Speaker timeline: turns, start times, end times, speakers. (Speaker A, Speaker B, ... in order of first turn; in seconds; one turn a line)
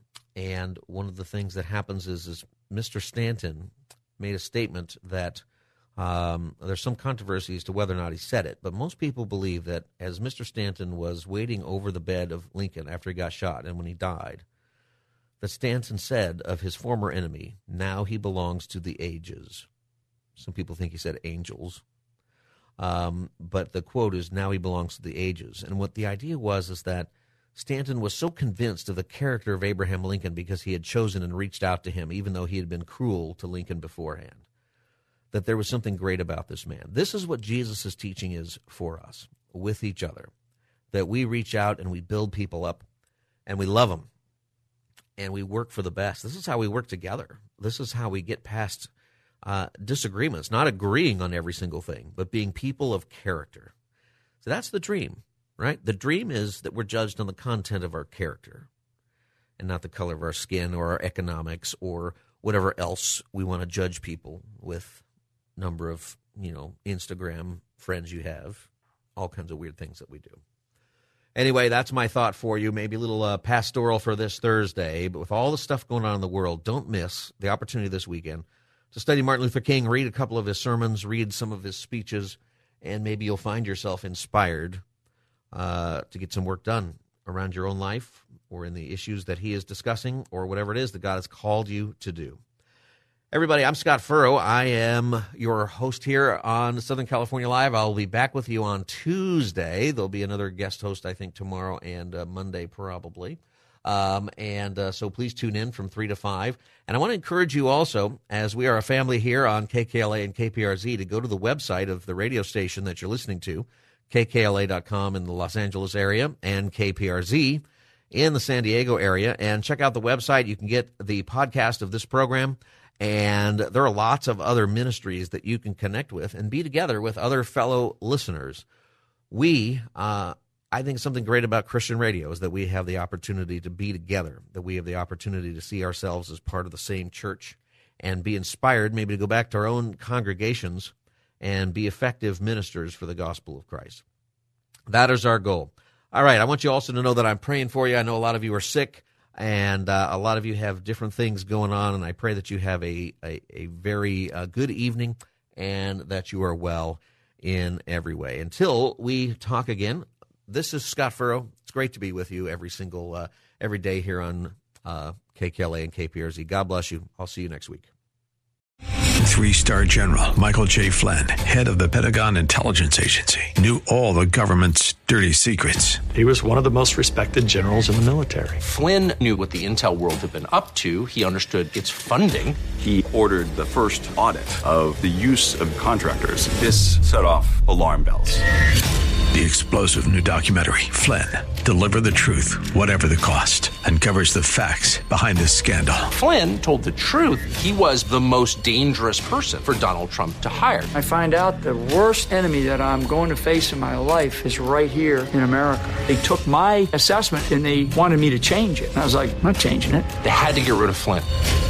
Speaker A: 0.3-5.4
Speaker A: 6.0-14.4
Speaker A: 15.4-19.7
Speaker A: 20.4-21.8
Speaker A: 22.8-34.4
Speaker A: 35.3-40.3
Speaker A: 40.9-42.8
Speaker A: 43.5-44.1
Speaker A: 45.2-48.9
Speaker A: 49.4-53.7
Speaker A: 54.4-58.7
Speaker A: 59.6-65.0
Speaker A: 65.6-70.4
Speaker A: 71.3-84.8
Speaker A: 85.5-92.4
Speaker A: 93.3-128.6
Speaker A: 129.3-144.0
Speaker A: 144.9-167.9
Speaker B: 169.2-176.0
Speaker C: 176.1-178.6
Speaker D: 178.6-182.6
Speaker E: 182.8-188.4
Speaker B: 189.3-196.1
Speaker D: 196.1-200.9
Speaker F: 200.9-210.1
Speaker D: 210.2-211.3